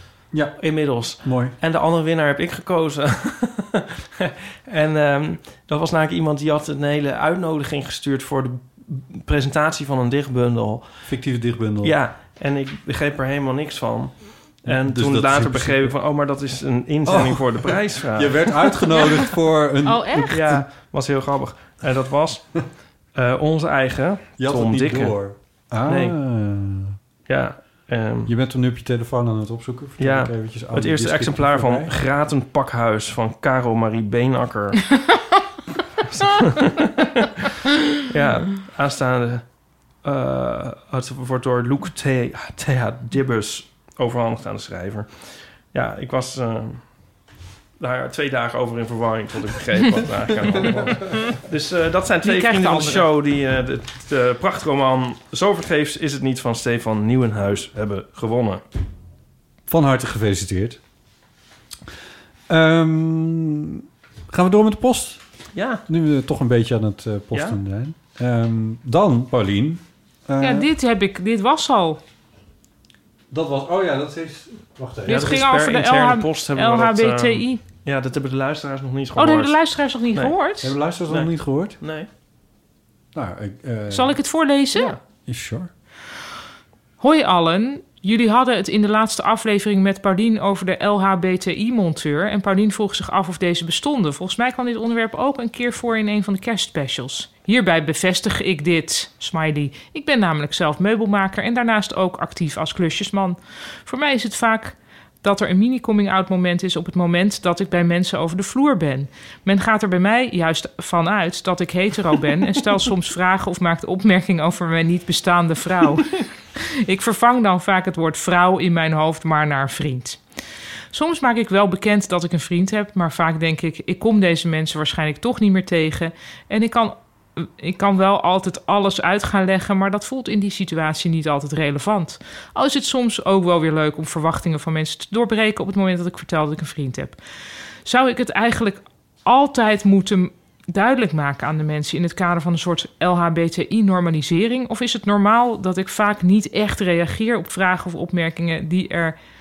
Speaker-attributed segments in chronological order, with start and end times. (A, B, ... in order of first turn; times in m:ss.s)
0:00.3-0:01.6 A
0:00.6-0:11.2 B
0:11.0-0:12.0 A
0:11.8-0:18.9 B
0:14.6-0:16.0 A
0:17.0-0:20.6 A
0:19.8-0:20.3 C
0:20.3-0:26.2 B
0:24.4-0:27.0 A
0:27.3-0:28.3 B
0:28.2-0:31.9 A
0:30.0-0:35.0 B
0:36.1-0:37.1 B
0:38.1-0:47.1 B
0:47.8-0:58.6 B
0:50.6-0:51.0 A
0:52.2-0:53.0 C
0:59.7-1:00.8 A
1:02.5-1:05.2 A
1:05.5-1:05.8 B
1:05.8-1:10.7 A
1:07.3-1:07.6 B
1:10.4-1:12.0 C
1:13.3-1:15.4 A
1:15.0-1:17.6 C
1:15.0-1:20.4 B
1:19.2-1:20.7 C
1:20.6-1:21.8 A
1:21.1-1:22.1 B
1:23.1-1:24.2 A
1:23.9-1:25.0 C
1:25.2-1:25.7 A
1:27.0-1:56.2 C
1:56.8-2:00.2 C
2:00.9-2:17.2 C
2:17.8-2:29.2 C